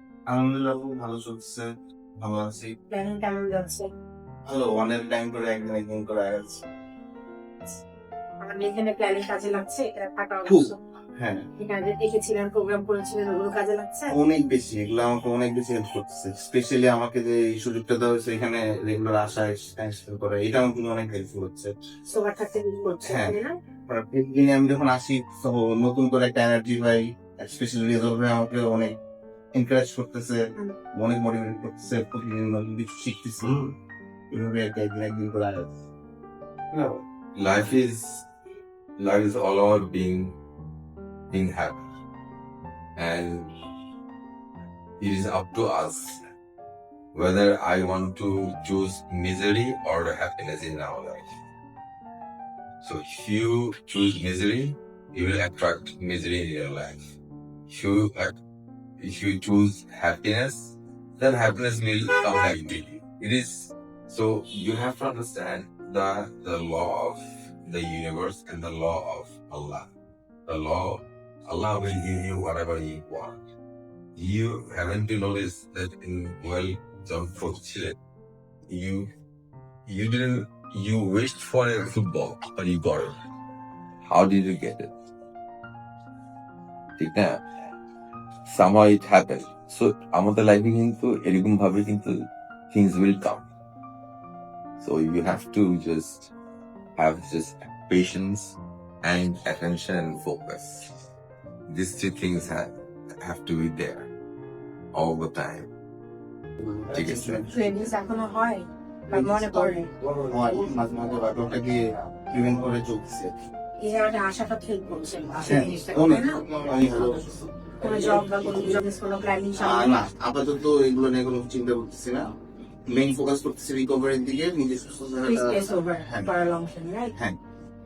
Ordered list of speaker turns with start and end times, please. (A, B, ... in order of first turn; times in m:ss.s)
0:00.3-0:02.8 A
0:02.9-0:03.9 B
0:04.5-0:06.6 A
0:08.4-0:10.8 B
0:10.4-0:11.4 A
0:11.6-0:14.2 B
0:14.1-0:21.7 A
0:22.1-0:23.5 B
0:23.0-0:29.0 A
0:29.5-0:30.4 A
0:30.9-0:33.7 A
0:34.3-0:35.8 A
0:36.7-0:38.2 C
0:39.0-0:40.4 C
0:41.3-0:41.8 C
0:43.0-0:43.5 C
0:45.0-0:46.2 C
0:47.1-0:51.3 C
0:52.8-0:57.1 C
0:57.7-0:58.4 C
0:59.0-1:09.9 C
1:10.5-1:13.4 C
1:14.2-1:18.0 C
1:18.7-1:19.1 C
1:19.9-1:23.2 C
1:24.1-1:24.9 C
1:27.0-1:27.4 C
1:28.4-1:33.4 C
1:34.8-1:36.3 C
1:37.0-1:40.9 C
1:41.7-1:44.1 C
1:44.9-1:45.7 C
1:46.6-1:47.5 A
1:46.9-1:47.4 C
1:47.5-1:49.9 B
1:49.1-1:53.3 A
1:53.8-1:56.5 B
1:55.4-1:58.0 A
1:56.8-1:57.4 C
1:57.8-2:00.0 B
1:59.6-2:02.3 A
2:02.9-2:06.3 A
2:05.2-2:07.1 B